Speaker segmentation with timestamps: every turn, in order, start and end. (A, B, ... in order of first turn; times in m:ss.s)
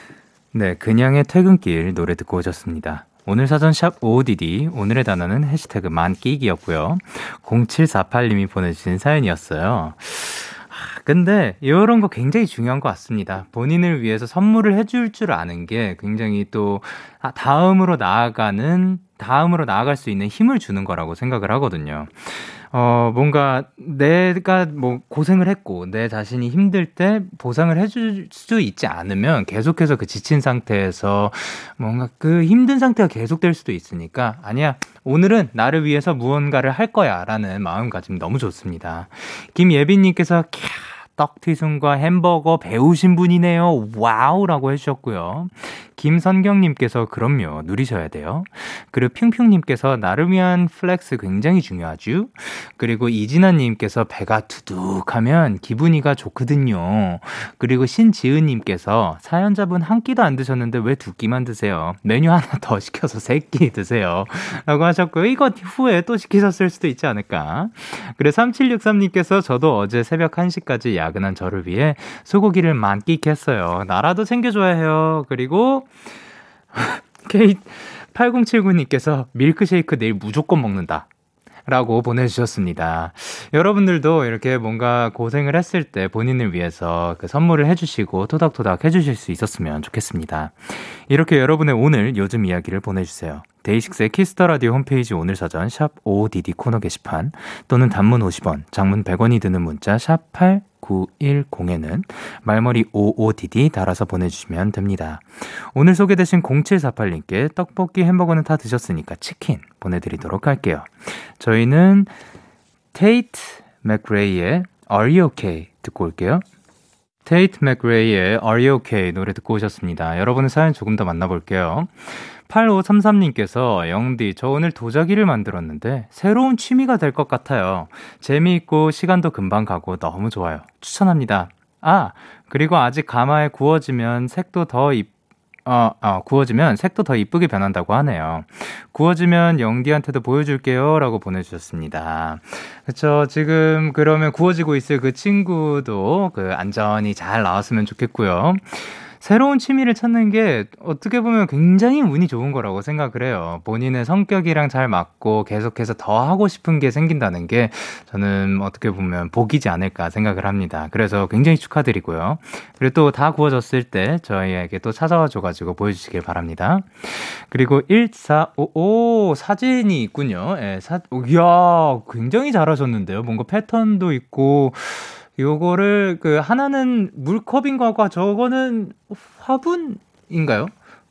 0:00.5-1:15.9 A
1:16.7-1:21.1 A
1:21.6-1:52.1 A
1:52.9-1:56.4 A
1:57.2-2:15.1 A
2:15.6-3:00.7 A